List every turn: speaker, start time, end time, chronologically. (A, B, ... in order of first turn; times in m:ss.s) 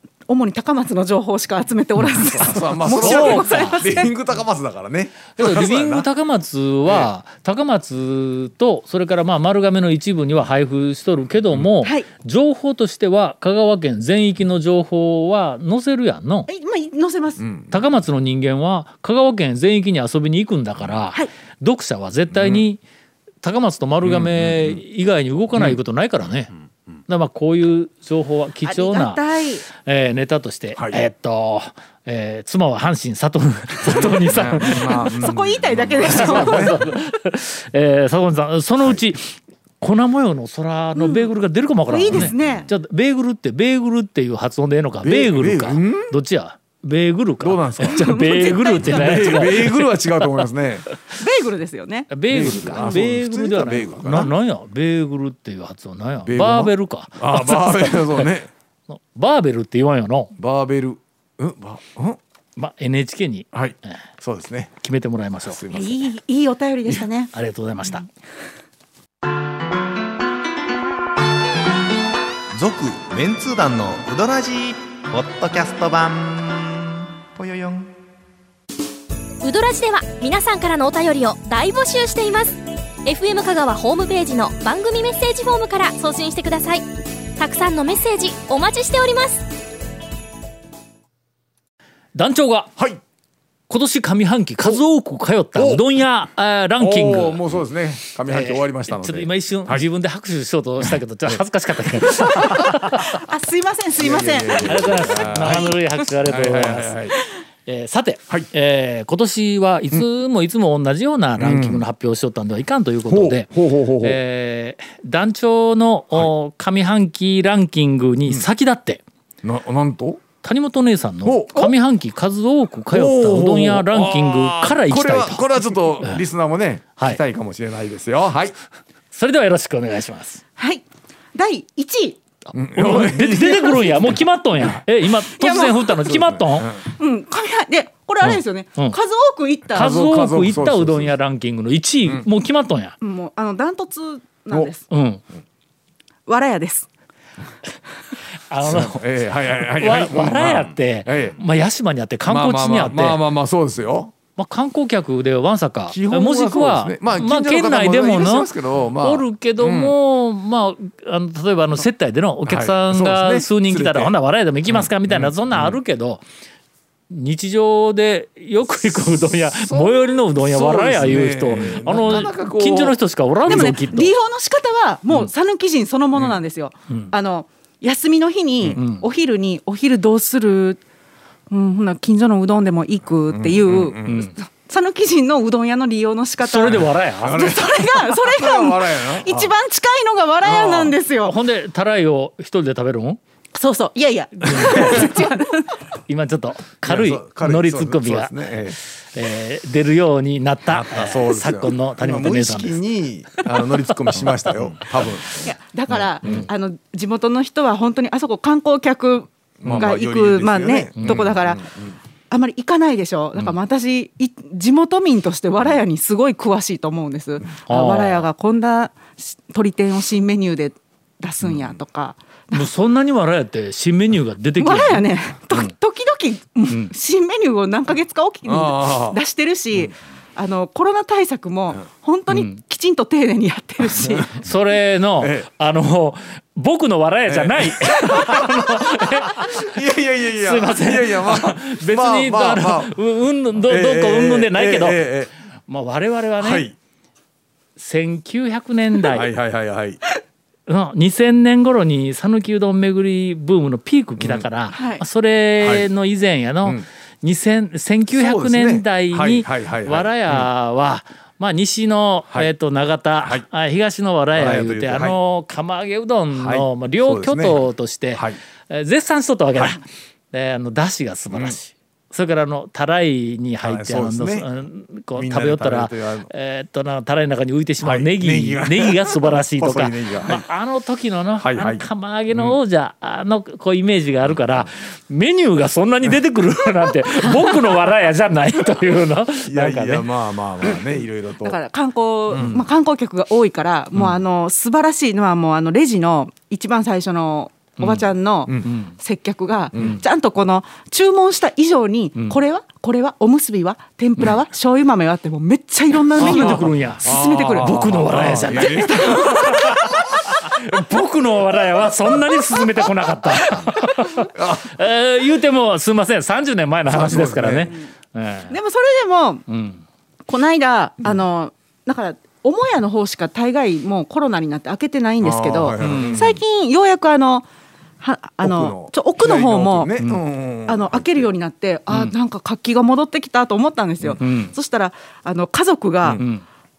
0:00.3-0:04.1 A
0:02.3-0:06.1 B
0:02.8-0:03.9 C
0:05.4-0:16.5 C
0:16.5-0:17.4 A
0:17.4-0:17.7 B
0:17.7-0:22.8 C
0:22.3-0:22.6 B
0:23.4-0:26.5 C
0:24.0-0:24.8 B
0:25.5-0:25.8 B
0:27.1-0:35.1 C
0:28.6-0:29.7 A
0:30.8-0:31.0 B
0:33.8-0:36.8 B
0:34.8-0:36.8 A
0:36.0-0:50.4 C
0:41.0-0:41.3 A
0:41.9-0:42.7 A
0:42.1-0:42.7 B
0:45.0-0:46.2 B
0:47.4-0:48.0 B
0:47.8-0:49.6 A
0:48.8-0:51.0 B
0:51.1-0:52.2 A
0:52.1-0:58.3 C
0:52.3-0:54.3 B
0:56.3-0:58.5 B
0:58.9-1:00.3 C
1:00.4-1:02.2 B
1:02.6-1:03.5 C
1:03.5-1:04.7 B
1:04.8-1:05.6 C
1:05.5-1:06.0 B
1:05.7-1:07.3 A
1:07.3-1:08.1 C
1:12.6-1:17.9 D
1:19.4-1:26.8 E
1:27.4-1:29.4 E
1:32.2-1:32.7 C
1:33.7-1:37.4 C
1:35.6-1:35.8 B
1:36.8-1:39.8 B
1:38.3-1:43.2 C
1:42.3-1:45.7 A
1:44.0-1:47.2 B
1:44.6-1:47.0 C
1:47.7-1:53.5 C
1:51.4-1:51.8 B
1:53.1-1:54.2 B
1:54.0-1:59.0 C
1:59.4-2:00.2 B
2:00.4-2:05.5 C
2:01.2-2:01.7 B
2:02.9-2:08.6 B
2:09.1-2:10.4 C
2:10.6-2:12.2 A
2:12.5-2:16.8 C
2:12.5-2:14.2 B
2:15.3-2:16.0 A
2:16.1-2:16.7 B
2:16.9-2:19.9 A
2:18.2-2:19.0 C
2:19.7-2:21.1 B
2:19.7-2:23.0 C
2:23.0-2:24.8 A
2:24.9-2:25.2 C
2:26.3-2:26.9 A
2:28.5-2:29.0 C
2:28.6-2:31.4 B
2:29.6-2:33.2 C
2:32.3-2:34.1 B
2:34.4-2:46.2 C
2:35.9-2:40.0 B
2:42.5-2:44.1 B
2:44.7-2:45.8 B
2:47.1-2:54.1 C
2:49.3-2:53.8 B
2:53.5-3:00.8 A
2:58.8-2:59.0 C
3:01.5-3:11.4 A
3:03.3-3:04.3 B
3:04.0-3:04.3 C
3:06.4-3:07.4 C
3:06.6-3:09.5 B
3:10.4-3:11.0 B
3:11.2-3:13.2 C
3:13.6-3:15.8 A
3:14.4-3:15.1 C
3:16.1-3:22.8 C
3:16.8-3:18.8 B
3:20.7-3:26.5 B
3:25.4-3:31.6 A
3:29.6-3:32.0 B
3:31.0-3:31.3 C
3:32.3-3:42.7 A
3:37.7-3:38.3 C
3:41.4-3:41.7 B
3:42.5-3:45.7 C
3:44.6-3:54.3 A
3:48.5-3:49.2 B
3:52.3-3:52.6 C
3:54.2-3:59.7 C
3:55.2-3:55.5 B
3:57.3-3:58.5 B
3:57.9-3:58.3 A
3:59.1-4:03.0 B
4:00.4-4:05.0 C
4:03.6-4:05.3 B
4:05.7-4:06.7 C
4:06.4-4:06.8 B
4:07.8-4:09.3 C
4:09.1-4:10.0 B
4:10.7-4:50.1 C
4:14.2-4:14.5 B
4:14.7-4:15.0 A
4:15.6-4:15.9 B
4:18.1-4:20.5 B
4:24.4-4:25.2 B
4:26.3-4:28.4 B
4:31.3-4:31.6 B
4:33.6-4:34.5 B
4:35.2-4:36.3 B
4:37.8-4:40.4 B
4:41.4-4:42.6 B
4:44.3-4:44.6 B
4:49.5-4:51.6 B
4:51.4-5:09.8 A
4:52.3-4:52.6 B
4:57.8-4:58.1 C
4:58.6-4:59.0 C
4:59.7-5:00.0 B
5:06.2-5:18.6 C
5:06.2-5:09.7 B
5:13.4-5:13.8 A
5:14.3-5:14.7 B
5:16.9-5:17.8 B
5:18.5-5:19.4 A
5:19.5-5:19.8 C
5:20.3-5:27.5 A
5:25.2-5:26.4 B
5:25.8-5:26.2 C
5:28.0-5:29.9 A
5:28.4-5:31.3 B
5:30.0-5:30.2 C
5:30.7-5:36.2 A
5:34.0-5:34.3 B
5:34.2-5:34.5 C
5:36.1-5:36.4 C